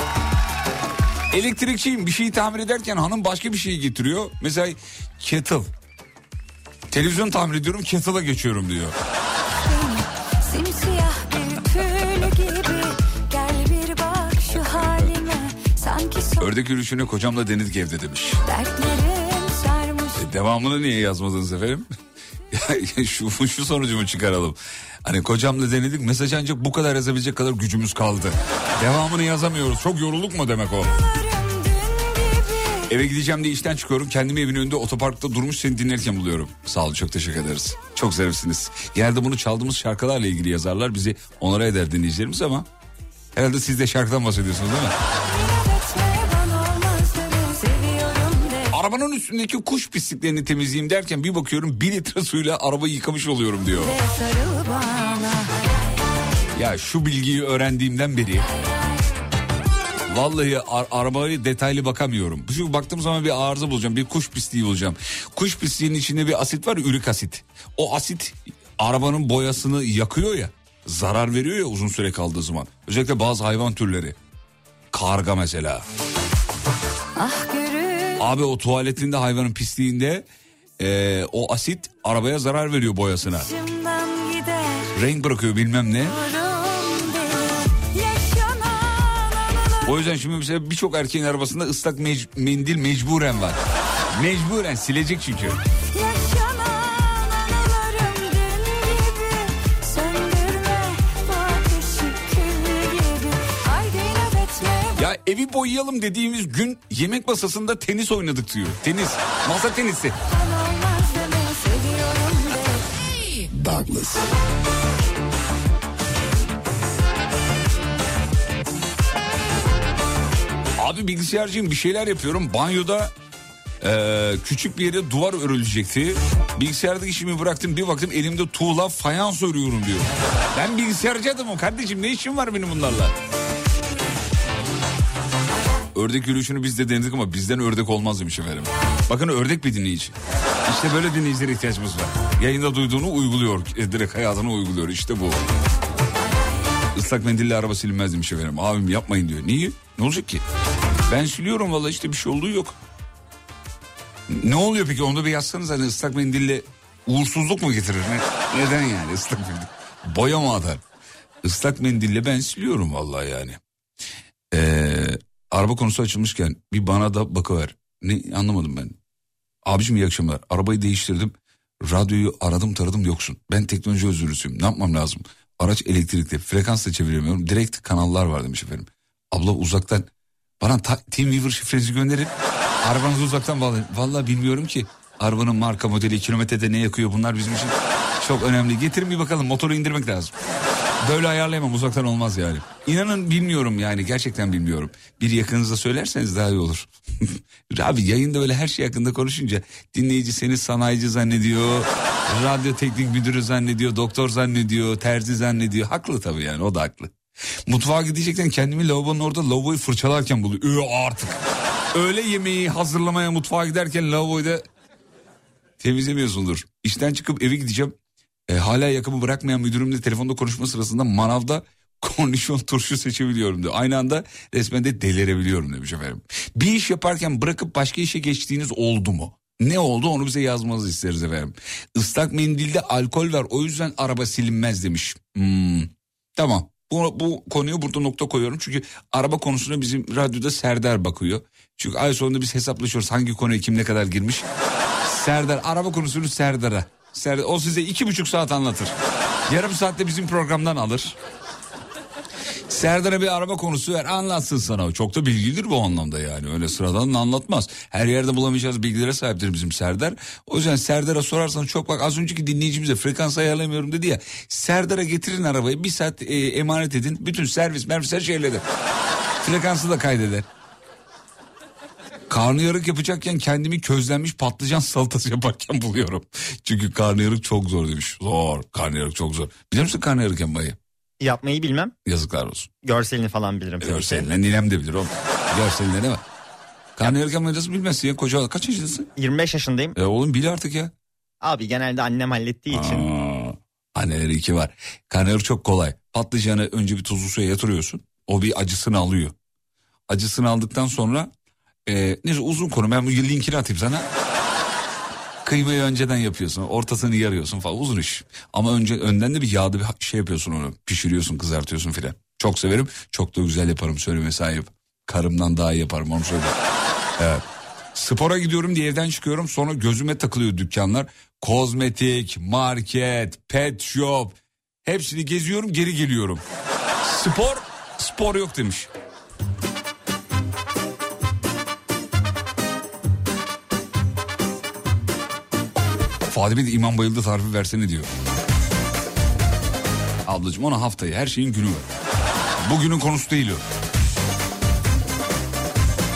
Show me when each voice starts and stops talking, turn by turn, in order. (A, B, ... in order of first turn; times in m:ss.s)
0:01.3-0:05.7 A
0:06.9-0:08.9 A
0:09.7-0:16.5 B
0:16.4-0:18.4 A
0:18.5-0:20.1 B
0:20.1-0:21.9 A
0:22.5-0:31.0 A
0:31.0-0:32.8 B
0:32.9-0:42.7 A
0:43.3-0:44.9 A
0:45.3-0:48.7 B
0:48.7-0:54.0 A
0:53.9-0:55.2 B
0:56.5-0:58.5 A
1:00.1-1:14.2 A
1:14.9-1:15.8 A
1:17.2-1:18.1 B
1:18.2-1:20.3 A
1:20.8-1:23.5 A
1:23.5-1:24.8 B
1:24.9-1:26.2 A
1:26.3-1:27.2 B
1:27.9-1:29.8 B
1:29.8-1:33.6 A
1:34.1-1:35.6 A
1:35.9-1:45.0 B
1:45.0-1:50.2 A
1:50.4-1:52.4 B
1:53.5-1:54.3 A
2:00.8-2:03.1 A
2:03.8-2:13.1 A
2:15.9-2:25.4 A
2:26.9-2:30.4 A
2:31.1-2:32.8 A
2:34.3-2:40.8 A
2:41.4-2:43.6 A
2:44.5-2:49.0 A
2:49.6-3:00.1 A
3:00.6-3:10.3 A
3:11.0-3:27.1 A
3:27.7-3:31.4 A
3:31.9-3:34.6 A
3:35.8-3:37.9 A
3:38.5-4:04.4 A
4:05.0-4:08.9 A
4:09.5-4:11.2 A
4:12.7-4:28.6 A
4:29.4-4:30.4 A
4:32.3-4:40.8 A
4:41.2-4:41.9 C
4:42.0-4:42.7 A
4:42.8-4:44.3 C
4:43.8-4:46.2 A
4:47.0-4:49.1 A
4:49.2-4:50.0 C
4:50.0-4:50.9 A
4:51.4-4:53.0 C
4:52.7-4:59.3 A
5:00.1-5:01.3 A
5:01.8-5:04.1 A
5:05.4-5:16.6 A
5:17.2-5:17.4 A
5:17.9-5:26.4 A
5:27.0-5:28.9 A
5:36.3-5:38.1 A
5:40.2-5:41.8 A
5:42.6-5:43.6 A